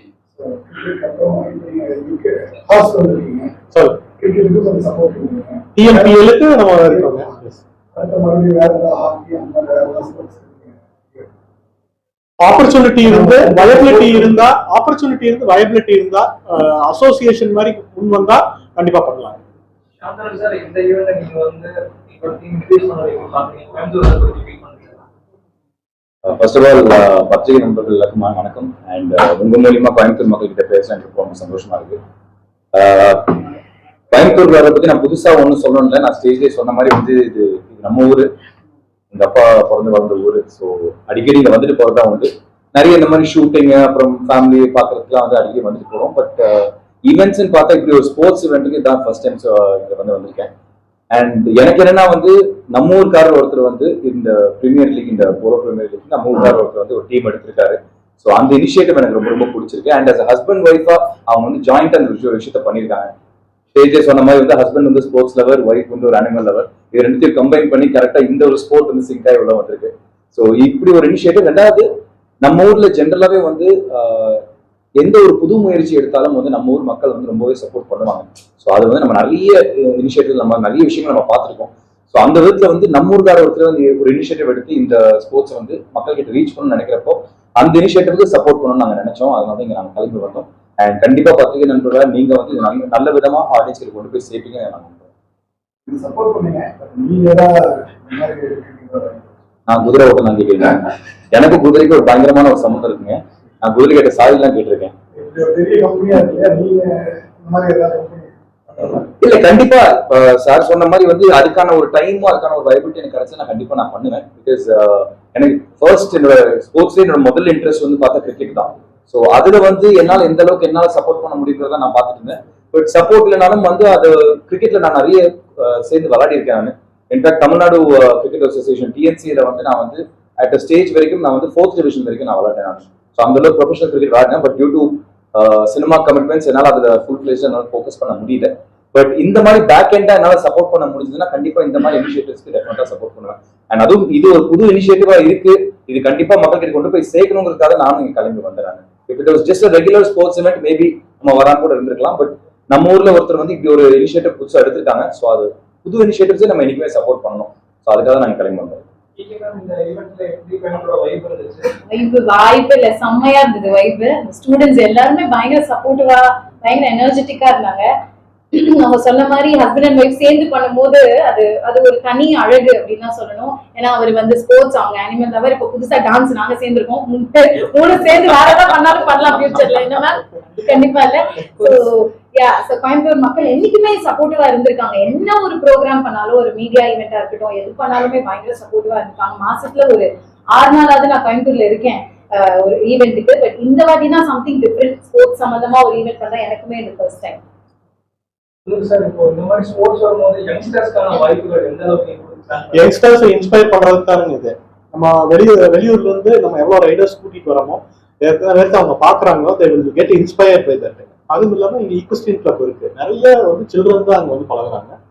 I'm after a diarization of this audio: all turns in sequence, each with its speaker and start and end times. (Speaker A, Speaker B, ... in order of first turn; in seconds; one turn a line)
Speaker A: 0.4-3.6
Speaker B: 3.7-4.0
Speaker A: 4.1-6.3
Speaker B: 5.8-7.6
Speaker A: 6.9-7.2
Speaker A: 7.9-11.3
Speaker B: 12.4-19.4
Speaker A: 13.0-14.4
Speaker C: 20.0-25.0
Speaker D: 26.2-32.0
Speaker D: 32.8-33.5
Speaker D: 34.1-38.3
Speaker D: 39.1-50.5
Speaker D: 51.1-63.1
Speaker D: 63.8-71.9
Speaker D: 72.4-74.4
Speaker D: 75.0-95.1
Speaker A: 95.9-99.2
Speaker D: 99.7-100.8
Speaker D: 101.3-104.9
Speaker A: 105.2-109.1
Speaker D: 109.2-158.8
Speaker C: 159.2-161.8
Speaker E: 161.9-167.9
Speaker E: 168.5-197.4
Speaker C: 198.7-202.9
Speaker B: 202.7-214.9